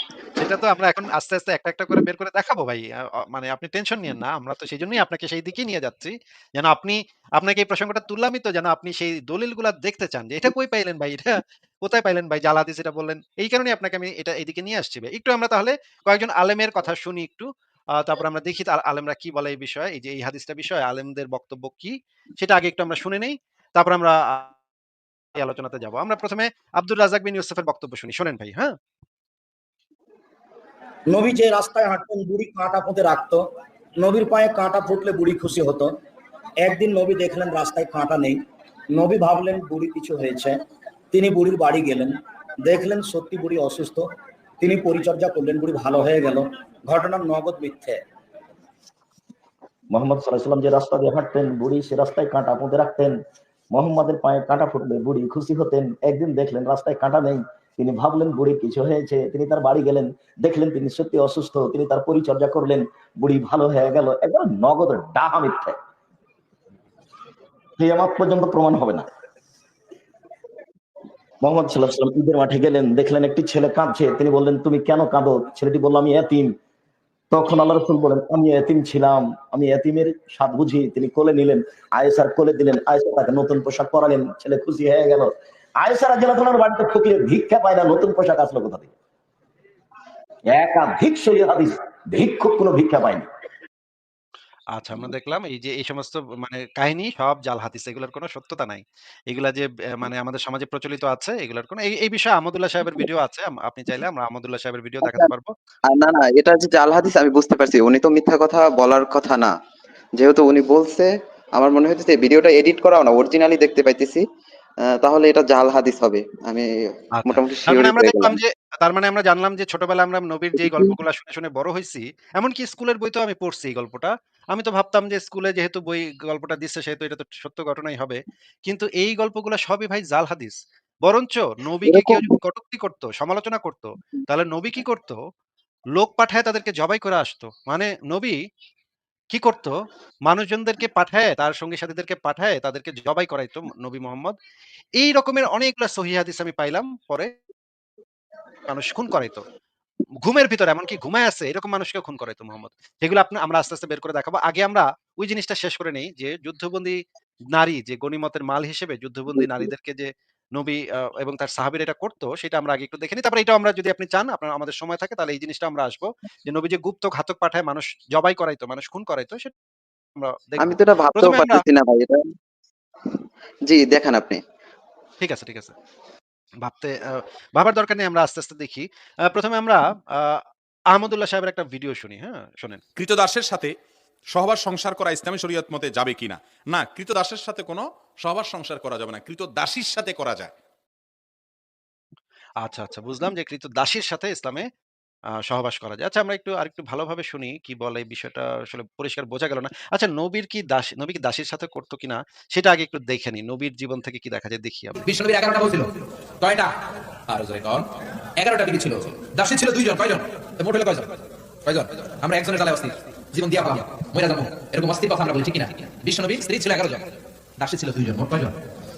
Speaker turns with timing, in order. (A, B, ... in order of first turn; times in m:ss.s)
0:00.4-0:24.6 A
0:25.4-0:28.7 A
0:31.1-0:33.4 B
0:34.0-0:35.9 B
0:36.6-0:38.4 B
0:39.0-0:40.6 B
0:41.1-0:42.1 B
0:42.7-0:44.1 B
0:44.6-0:48.0 B
0:49.9-0:53.2 C
0:53.7-1:05.8 C
1:07.8-1:09.1 C
1:11.4-1:16.6 C
1:17.3-1:28.9 C
1:30.5-1:33.2 C
1:34.7-1:45.5 A
1:45.0-1:45.3 D
1:45.9-1:49.5 D
1:50.2-1:54.2 D
1:55.0-1:56.7 D
1:57.2-2:15.2 A
1:57.2-1:58.4 D
2:11.9-2:12.3 D
2:16.0-2:18.4 A
2:19.3-2:19.7 A
2:20.3-2:24.4 A
2:25.0-2:27.4 A
2:28.7-2:29.4 A
2:30.2-2:37.0 A
2:37.5-2:49.5 A
2:50.2-2:51.6 A
2:50.6-2:52.2 D
2:53.7-2:54.4 D
2:55.2-2:55.7 A
2:56.6-3:00.4 A
3:00.9-3:02.8 A
3:03.0-3:03.7 E
3:04.3-3:10.5 E
3:12.6-3:14.7 A
3:15.4-3:25.0 A
3:25.0-3:26.8 F
3:27.3-3:31.1 F
3:31.7-3:38.6 F